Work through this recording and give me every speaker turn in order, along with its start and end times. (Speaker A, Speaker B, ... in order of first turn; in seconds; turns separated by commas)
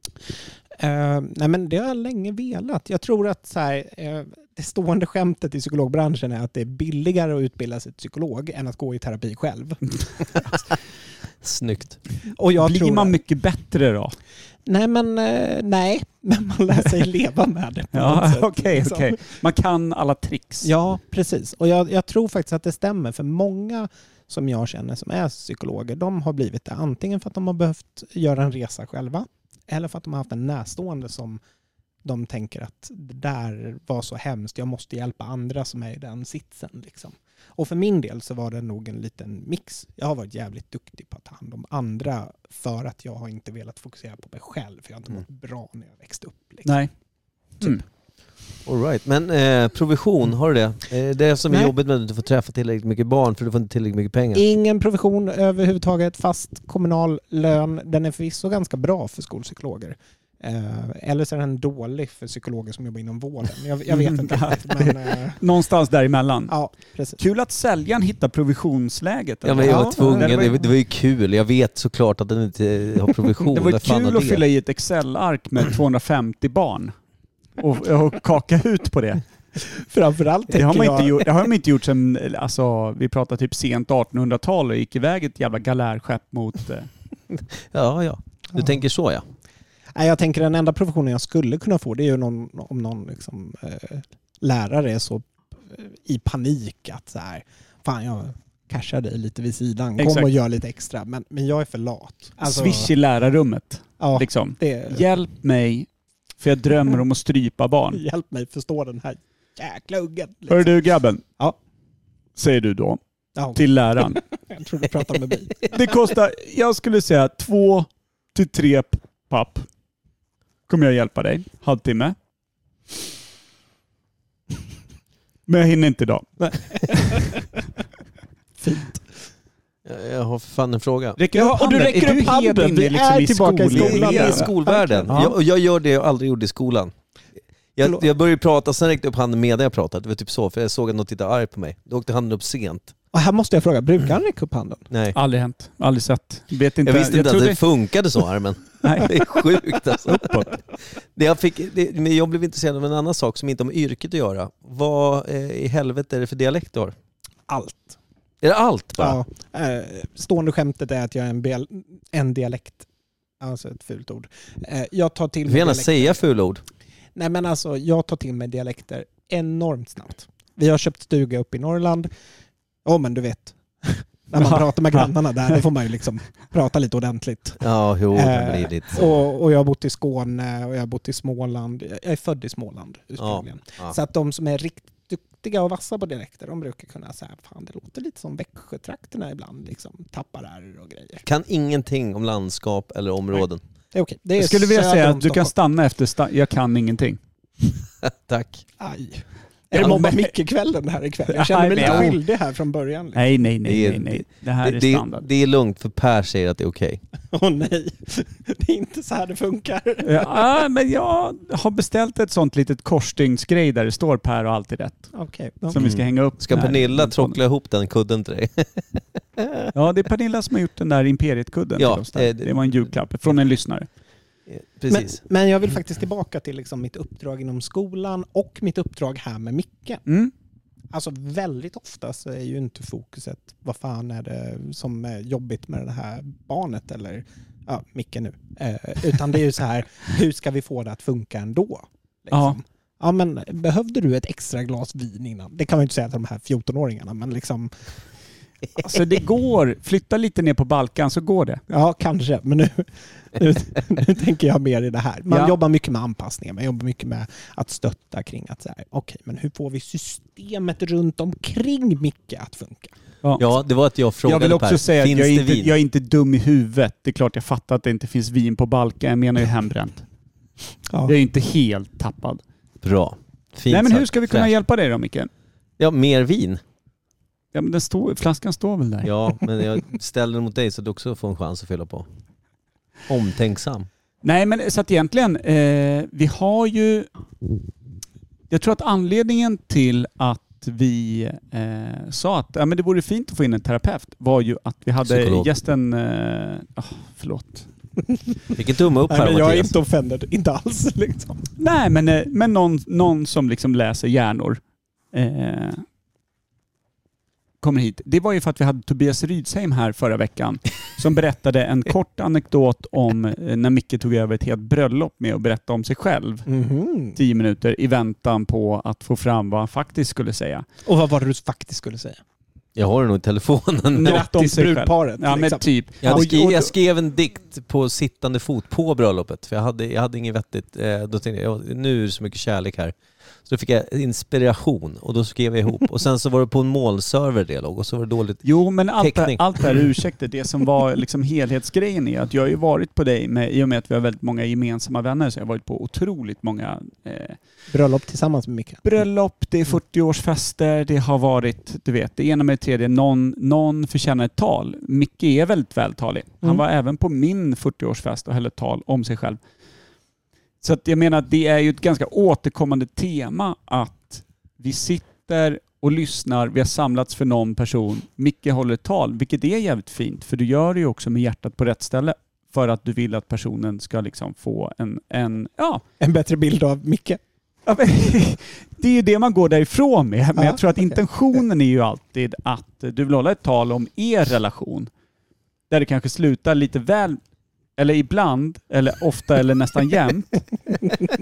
Speaker A: 0.8-10.0, Speaker B: 11.4-12.0, Speaker A: 12.3-13.2, Speaker C: 12.6-14.2, Speaker A: 14.6-19.2, Speaker C: 17.9-20.7, Speaker A: 20.6-31.4, Speaker A: 32.0-46.8, Speaker C: 46.6-46.9, Speaker B: 48.6-54.4, Speaker A: 54.3-65.4, Speaker C: 63.9-66.5, Speaker A: 66.5-67.2, Speaker C: 67.2-70.5, Speaker B: 69.4-74.4, Speaker A: 69.6-70.5, Speaker C: 73.5-76.9, Speaker C: 77.6-79.2, Speaker A: 79.6-81.4, Speaker C: 80.5-86.9, Speaker B: 87.7-89.2, Speaker A: 89.9-102.9, Speaker C: 100.0-100.3, Speaker C: 102.4-105.9, Speaker A: 104.0-105.0, Speaker C: 106.4-108.0, Speaker A: 107.9-110.8, Speaker C: 110.5-111.2, Speaker C: 112.4-113.0, Speaker A: 113.3-115.9, Speaker C: 113.5-114.2, Speaker C: 115.7-119.7, Speaker C: 120.7-122.1, Speaker C: 125.5-127.2, Speaker A: 126.4-127.4, Speaker A: 128.6-129.0, Speaker B: 129.8-131.2, Speaker C: 131.2-134.5, Speaker A: 131.3-135.3, Speaker B: 133.7-136.9, Speaker B: 137.8-142.9, Speaker A: 143.1-144.8, Speaker B: 144.9-145.2, Speaker C: 145.1-147.6, Speaker B: 146.8-150.6, Speaker C: 148.8-149.1, Speaker C: 150.1-150.4, Speaker B: 151.1-156.9, Speaker A: 157.5-158.0, Speaker B: 158.4-159.2, Speaker A: 159.0-162.9, Speaker A: 163.4-166.2, Speaker B: 165.5-166.6, Speaker A: 167.2-172.1, Speaker A: 172.8-191.2, Speaker B: 177.6-179.1, Speaker B: 183.2-183.9, Speaker B: 191.2-193.6, Speaker A: 193.9-195.5, Speaker C: 194.4-197.2, Speaker B: 198.3-198.6, Speaker A: 198.8-203.3, Speaker C: 199.7-200.3, Speaker C: 201.3-202.2, Speaker B: 201.8-202.0, Speaker C: 203.1-205.2, Speaker B: 203.7-207.0, Speaker A: 207.3-210.4, Speaker C: 210.0-215.1, Speaker A: 215.1-215.8, Speaker C: 215.7-217.3, Speaker B: 215.7-219.0, Speaker C: 219.7-223.9, Speaker B: 221.8-222.8, Speaker B: 224.5-225.2, Speaker A: 224.9-230.0, Speaker C: 230.1-230.3, Speaker A: 230.9-247.7, Speaker C: 242.3-242.6, Speaker C: 248.8-251.6, Speaker A: 251.7-262.9, Speaker C: 255.3-255.5, Speaker B: 263.4-265.7, Speaker C: 264.2-270.0, Speaker A: 270.9-271.1, Speaker C: 271.1-272.4, Speaker B: 272.8-274.5, Speaker C: 273.7-275.3, Speaker B: 275.8-276.6, Speaker C: 277.5-279.1, Speaker B: 279.0-282.1, Speaker B: 283.1-283.9, Speaker C: 284.2-287.1, Speaker C: 288.5-297.7, Speaker B: 295.0-295.5, Speaker B: 298.5-299.7, Speaker A: 299.1-301.4, Speaker C: 301.6-304.6, Speaker C: 305.1-305.8, Speaker C: 307.6-316.4, Speaker A: 316.4-317.2, Speaker C: 317.1-320.6, Speaker A: 320.8-322.2, Speaker B: 322.8-324.2, Speaker C: 323.9-326.7, Speaker A: 324.0-326.4, Speaker B: 326.0-332.9, Speaker B: 333.4-338.4, Speaker C: 338.4-347.4, Speaker B: 339.0-339.9, Speaker A: 347.7-348.8, Speaker C: 348.8-359.4, Speaker C: 360.6-375.8, Speaker A: 376.0-377.2, Speaker C: 377.6-384.9, Speaker A: 380.4-380.9, Speaker C: 385.7-387.2, Speaker C: 387.8-390.3